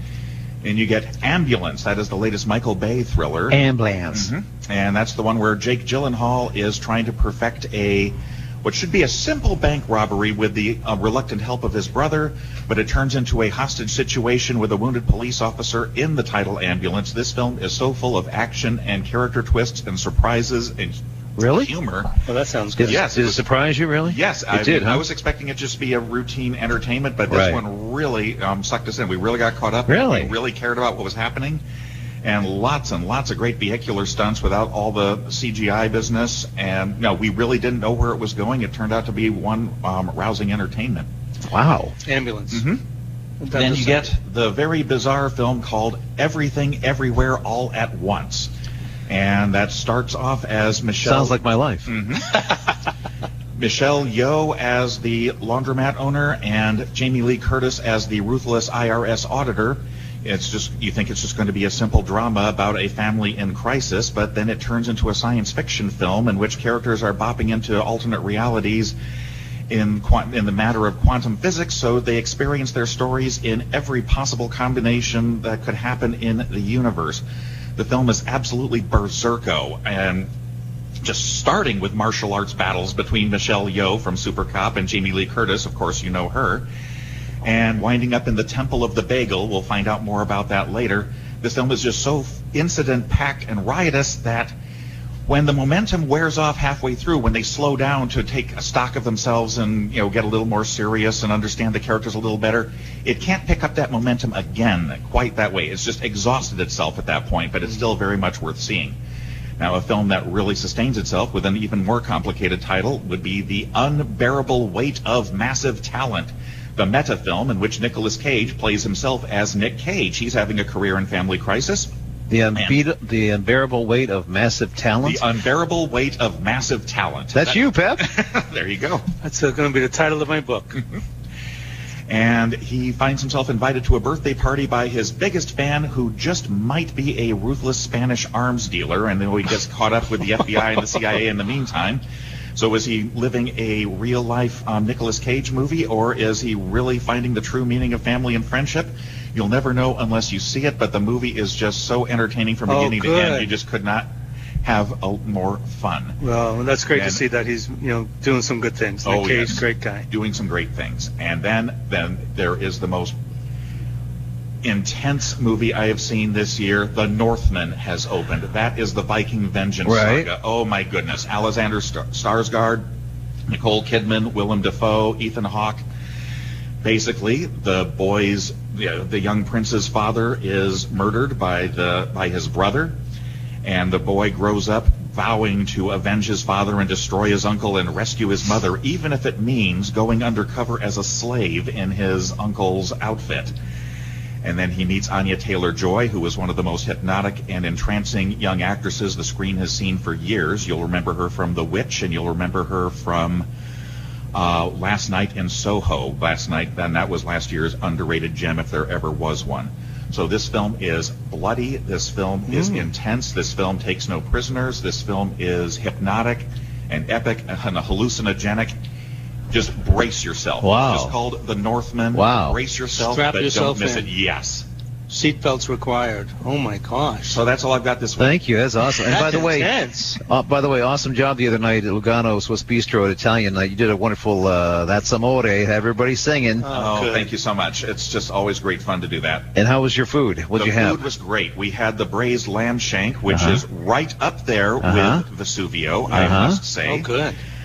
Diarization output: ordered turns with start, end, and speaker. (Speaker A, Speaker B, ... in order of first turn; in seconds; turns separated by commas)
Speaker A: 0.6-3.6, Speaker B: 3.5-4.3, Speaker A: 4.1-22.1, Speaker B: 21.4-21.7, Speaker C: 22.2-23.0, Speaker A: 22.8-23.5, Speaker B: 22.8-25.1, Speaker A: 24.0-31.6, Speaker B: 27.3-27.6, Speaker B: 29.9-30.3, Speaker A: 32.2-41.1, Speaker B: 41.5-41.9, Speaker C: 42.0-42.6, Speaker A: 42.5-42.8, Speaker C: 43.4-44.1, Speaker A: 43.5-48.5, Speaker A: 49.1-52.4, Speaker B: 51.0-51.9, Speaker A: 53.6-69.0, Speaker A: 69.7-77.2, Speaker A: 77.8-80.3, Speaker A: 81.0-86.7, Speaker A: 87.4-94.5, Speaker A: 95.2-109.0, Speaker A: 109.6-121.9, Speaker B: 122.3-125.2, Speaker A: 125.0-129.0, Speaker B: 127.3-128.1, Speaker C: 129.2-130.8, Speaker A: 132.1-142.0, Speaker A: 142.6-154.1, Speaker C: 152.7-153.5, Speaker A: 154.6-156.2, Speaker C: 156.2-160.1, Speaker A: 156.9-157.2, Speaker A: 159.0-163.2, Speaker A: 164.6-172.9, Speaker B: 169.8-170.3, Speaker A: 173.5-175.8, Speaker A: 176.8-183.0, Speaker A: 183.6-193.5, Speaker A: 194.4-203.5, Speaker A: 204.3-218.8, Speaker C: 212.5-212.9, Speaker A: 219.5-224.7, Speaker B: 220.6-221.2, Speaker B: 222.1-222.6, Speaker C: 222.9-224.1, Speaker C: 225.1-227.4, Speaker A: 227.3-228.4, Speaker B: 228.2-236.7, Speaker C: 229.1-230.2, Speaker C: 236.6-237.3, Speaker A: 236.7-239.5, Speaker B: 239.5-241.0, Speaker A: 240.6-247.1, Speaker B: 243.3-243.6, Speaker B: 244.8-245.2, Speaker C: 246.1-247.4, Speaker B: 246.1-246.6